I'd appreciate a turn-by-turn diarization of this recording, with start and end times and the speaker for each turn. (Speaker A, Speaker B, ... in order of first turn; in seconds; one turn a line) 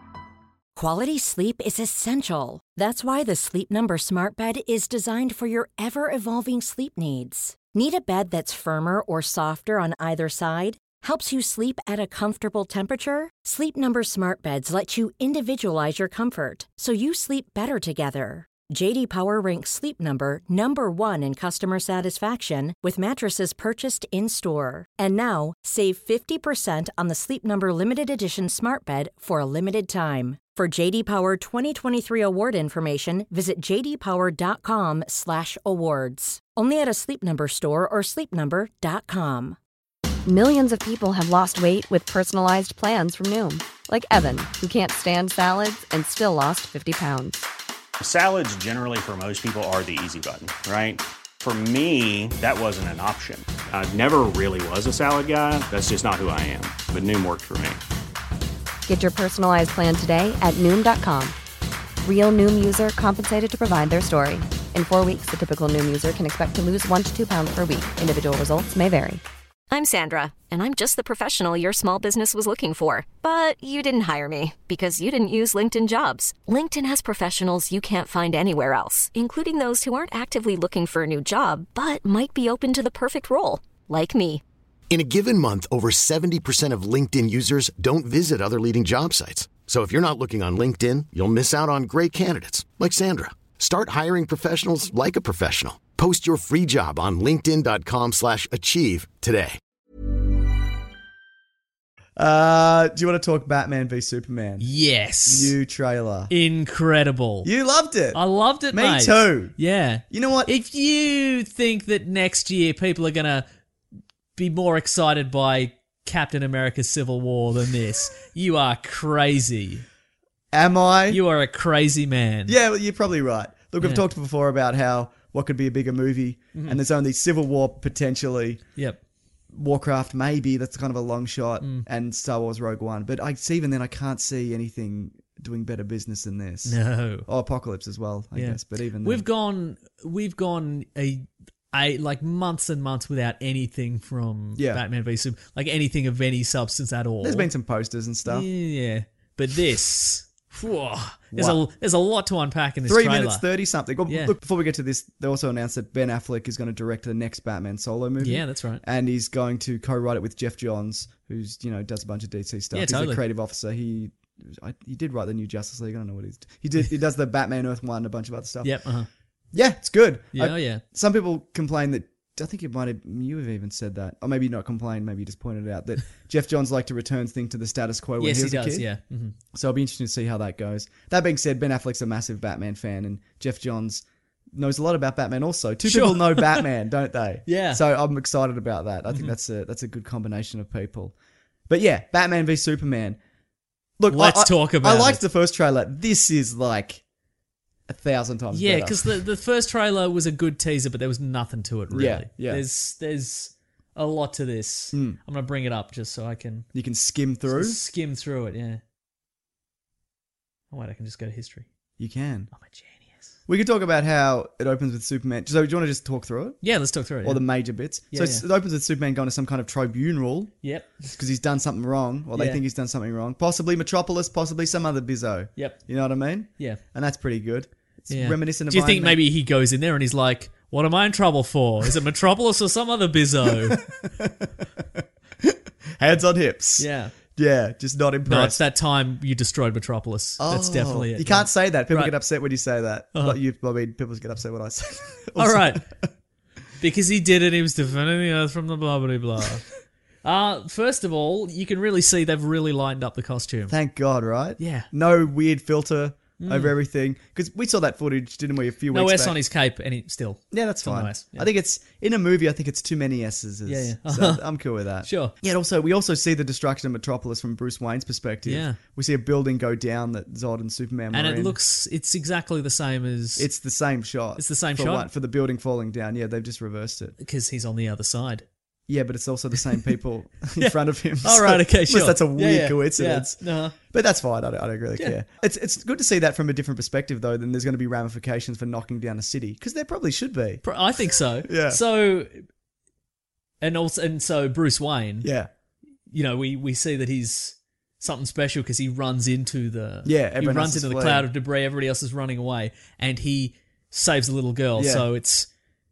Speaker A: 0.8-39.6
Speaker B: 40.2-47.5
Speaker C: 48.0-57.8
Speaker B: 58.9-61.4
Speaker B: 62.0-69.2
Speaker D: 69.7-84.4
Speaker E: 84.9-99.6
Speaker F: 102.2-104.7
Speaker G: 104.6-105.5
Speaker F: 105.3-106.3
Speaker G: 106.3-107.5
Speaker F: 107.4-109.6
Speaker G: 108.1-113.5
Speaker F: 110.1-110.5
Speaker G: 114.4-119.8
Speaker F: 120.5-121.2
Speaker G: 121.1-122.5
Speaker F: 122.5-128.7
Speaker F: 129.5-139.2
Speaker G: 131.6-131.9
Speaker G: 136.7-137.3
Speaker G: 138.3-147.5
Speaker F: 144.6-144.8
Speaker F: 147.2-148.5
Speaker G: 148.3-153.4
Speaker F: 151.3-151.6
Speaker F: 152.9-168.8
Speaker G: 154.1-154.3
Speaker G: 158.2-158.8
Speaker G: 162.7-163.2
Speaker G: 168.6-169.1
Speaker F: 169.5-178.9
Speaker G: 170.3-170.8
Speaker G: 178.2-179.4
Speaker F: 179.5-191.2
Speaker G: 185.8-186.7
Speaker G: 187.5-187.8
Speaker F: 191.7-193.2
Speaker F: 194.0-197.0
Speaker G: 194.1-195.2
Speaker F: 197.9-199.2
Speaker G: 198.5-206.7
Speaker F: 201.9-202.6
Speaker F: 204.9-205.2
Speaker F: 206.7-207.8
Speaker G: 207.5-208.8
Speaker G: 210.7-211.7
Speaker F: 212.0-212.5
Speaker G: 212.5-213.3
Speaker F: 213.5-216.6
Speaker G: 216.6-217.5
Speaker F: 217.2-220.6
Speaker G: 218.1-218.4
Speaker G: 220.6-221.2
Speaker F: 221.1-229.2
Speaker G: 222.3-222.6
Speaker G: 225.6-225.8
Speaker G: 228.1-233.8
Speaker F: 233.5-238.6
Speaker G: 236.8-237.1
Speaker G: 238.3-242.1
Speaker F: 240.4-246.1
Speaker G: 245.4-245.8
Speaker G: 246.8-249.7
Speaker G: 250.2-253.7
Speaker F: 253.7-259.4
Speaker G: 254.6-254.9
Speaker G: 256.4-256.7
Speaker G: 258.9-261.5
Speaker F: 260.5-271.6
Speaker G: 263.7-264.4
Speaker G: 265.0-265.3
Speaker G: 268.4-268.8
Speaker G: 271.1-273.5
Speaker F: 273.4-277.2
Speaker G: 274.4-275.1
Speaker G: 277.2-278.4
Speaker F: 278.9-290.8
Speaker G: 280.6-283.8
Speaker G: 290.6-292.5
Speaker F: 291.4-291.8
Speaker G: 293.6-295.3
Speaker F: 295.2-295.5
Speaker G: 296.1-305.5
Speaker F: 300.1-301.3
Speaker F: 304.8-305.1